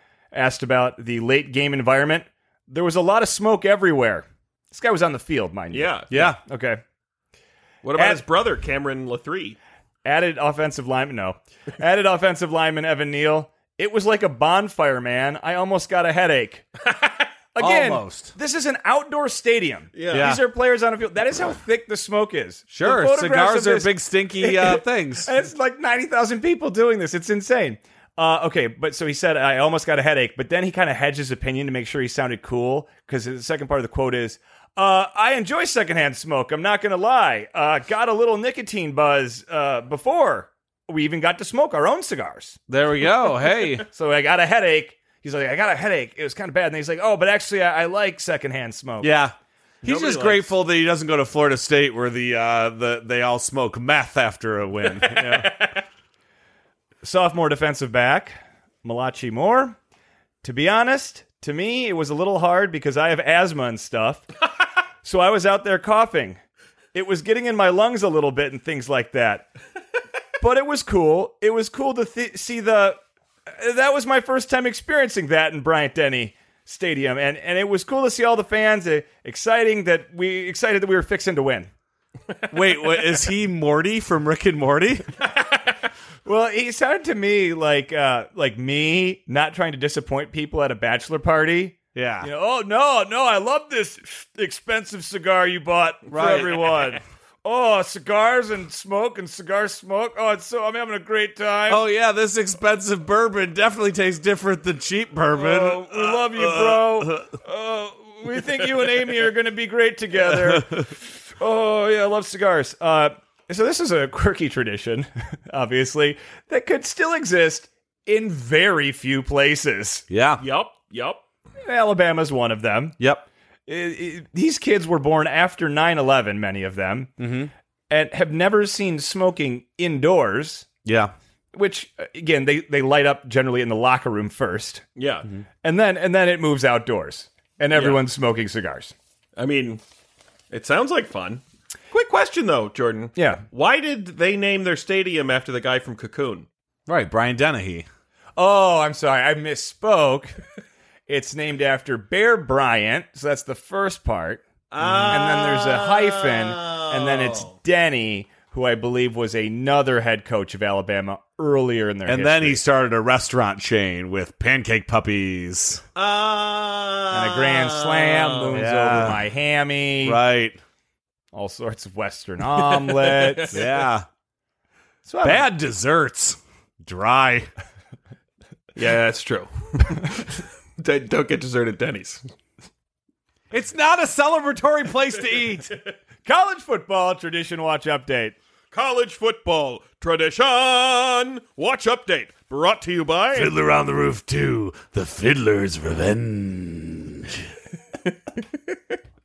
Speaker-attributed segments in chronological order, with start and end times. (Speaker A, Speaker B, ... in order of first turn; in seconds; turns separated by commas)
Speaker A: 0.3-6.8, Speaker B: 5.7-6.1, Speaker C: 6.1-6.4, Speaker B: 7.8-9.6, Speaker A: 8.0-8.2, Speaker A: 10.1-16.7, Speaker B: 16.9-17.2, Speaker A: 17.6-42.6, Speaker C: 17.6-18.3, Speaker B: 19.9-20.4, Speaker C: 20.1-20.4, Speaker C: 22.7-25.3, Speaker C: 42.7-43.8, Speaker A: 43.8-49.1, Speaker C: 49.0-55.5, Speaker B: 49.8-50.6, Speaker B: 54.9-55.8, Speaker A: 57.0-59.8, Speaker A: 60.4-64.3, Speaker A: 65.0-66.4, Speaker A: 66.9-69.5, Speaker A: 70.4-73.0, Speaker A: 73.5-81.7, Speaker C: 82.5-85.1, Speaker A: 86.2-101.8, Speaker C: 92.0-92.3, Speaker C: 96.1-96.8, Speaker C: 101.7-107.3, Speaker A: 105.3-120.0, Speaker C: 110.3-110.6, Speaker C: 120.1-120.4, Speaker B: 120.4-121.2, Speaker A: 121.6-123.0, Speaker C: 123.0-123.3, Speaker A: 123.7-127.1, Speaker C: 127.2-127.5, Speaker A: 127.9-130.7, Speaker C: 130.8-131.1, Speaker A: 131.5-134.8, Speaker B: 135.0-135.3, Speaker A: 135.6-138.9, Speaker B: 137.7-138.0, Speaker B: 139.4-139.8, Speaker B: 140.5-146.5, Speaker A: 143.2-143.4, Speaker C: 146.9-147.9, Speaker A: 148.4-150.4, Speaker A: 151.1-154.4, Speaker B: 154.7-157.5, Speaker C: 154.8-155.2, Speaker A: 155.1-162.6, Speaker C: 162.1-165.8, Speaker B: 166.0-168.6, Speaker A: 167.1-170.2, Speaker C: 168.6-169.2, Speaker C: 170.1-170.6, Speaker A: 171.3-173.7, Speaker B: 172.6-173.7, Speaker C: 173.5-174.1, Speaker A: 175.1-175.5, Speaker C: 175.2-177.5, Speaker B: 178.8-182.2, Speaker C: 183.5-185.8, Speaker B: 185.2-185.8, Speaker A: 186.2-188.4, Speaker B: 188.7-193.6, Speaker C: 193.3-197.5